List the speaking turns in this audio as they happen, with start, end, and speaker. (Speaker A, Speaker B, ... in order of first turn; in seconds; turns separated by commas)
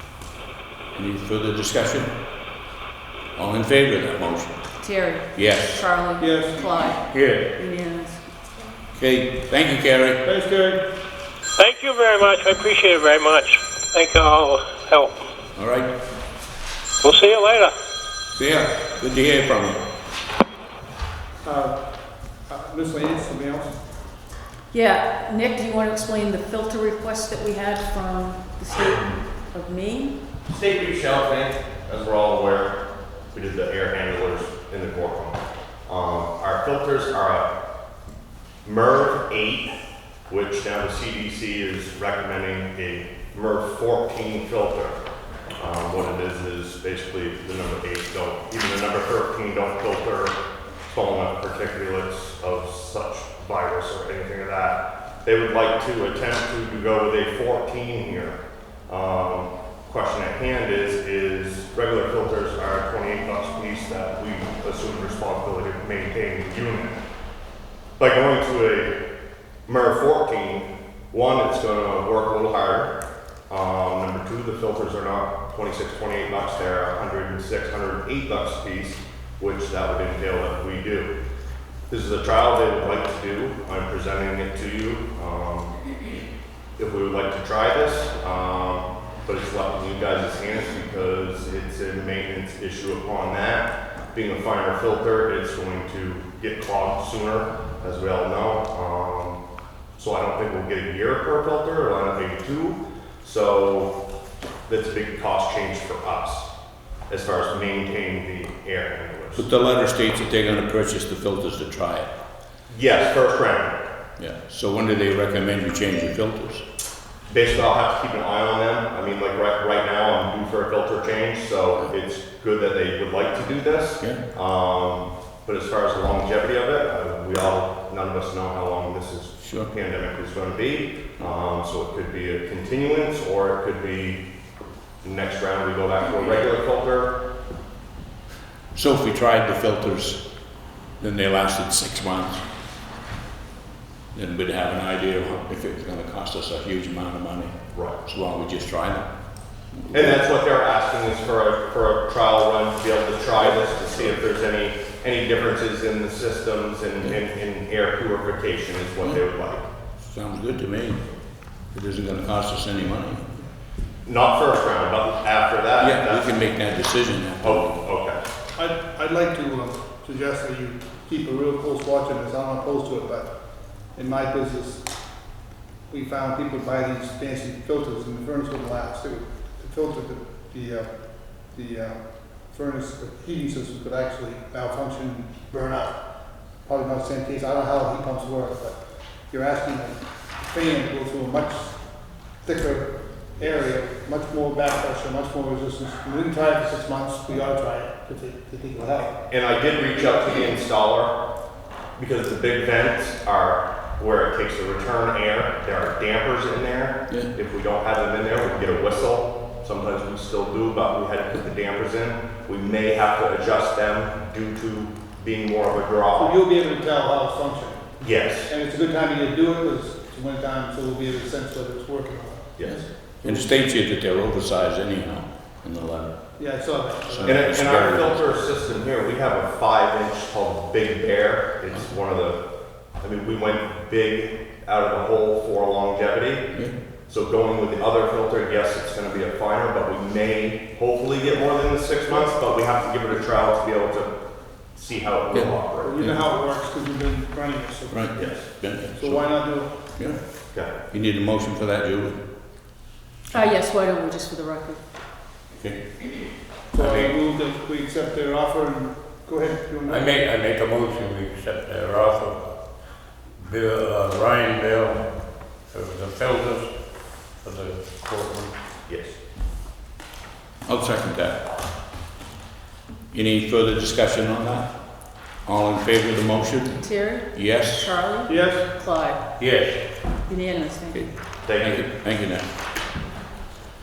Speaker A: 0.9-2.1, Speaker A: 3.4-4.8, Speaker B: 4.8-8.3, Speaker A: 5.3-5.8, Speaker C: 6.2-6.7, Speaker D: 7.1-7.5, Speaker A: 8.9-10.2, Speaker C: 10.2-10.8, Speaker E: 11.6-15.1, Speaker A: 15.6-15.9, Speaker E: 17.0-17.7, Speaker A: 18.3-19.8, Speaker C: 21.4-23.8, Speaker B: 24.7-30.2, Speaker F: 30.4-32.8, Speaker F: 33.3-37.5, Speaker F: 38.6-39.7, Speaker F: 40.3-45.0, Speaker F: 45.6-50.3, Speaker F: 50.9-67.0, Speaker F: 68.0-68.9, Speaker F: 69.7-72.9, Speaker F: 73.5-81.1, Speaker F: 81.9-85.8, Speaker F: 86.8-99.4, Speaker F: 100.0-103.9, Speaker F: 104.7-106.5, Speaker F: 107.1-109.4, Speaker A: 109.4-112.1, Speaker F: 112.7-113.8, Speaker A: 114.2-116.6, Speaker F: 117.3-134.2, Speaker A: 129.4-129.7, Speaker F: 135.0-137.2, Speaker A: 138.7-140.2, Speaker A: 141.0-142.4, Speaker A: 144.1-149.1, Speaker F: 147.7-148.0, Speaker F: 149.9-159.7, Speaker A: 160.0-161.0, Speaker A: 161.7-163.2, Speaker F: 164.1-166.4, Speaker A: 165.8-167.7, Speaker F: 167.4-168.2, Speaker C: 168.6-173.3, Speaker C: 173.9-174.8, Speaker C: 175.9-186.0, Speaker C: 186.7-199.1, Speaker F: 199.3-201.2, Speaker F: 202.0-216.4, Speaker C: 216.2-217.9, Speaker F: 218.0-218.5, Speaker C: 218.4-222.6, Speaker F: 222.6-222.9, Speaker A: 222.6-228.4, Speaker C: 226.4-227.5, Speaker F: 227.2-232.4, Speaker F: 233.0-244.1, Speaker F: 244.7-245.9, Speaker A: 245.3-246.2, Speaker C: 245.8-249.8, Speaker A: 247.9-252.2, Speaker F: 248.2-248.5, Speaker B: 253.3-254.8, Speaker C: 256.7-260.1, Speaker D: 256.8-257.1, Speaker D: 259.9-262.7, Speaker D: 263.4-268.6, Speaker F: 268.9-269.2, Speaker A: 270.6-271.4, Speaker A: 273.1-274.8, Speaker A: 275.4-277.9, Speaker B: 276.7-279.2, Speaker C: 278.3-278.6, Speaker D: 279.4-279.8, Speaker B: 280.0-281.2, Speaker A: 280.9-282.4, Speaker F: 281.4-281.9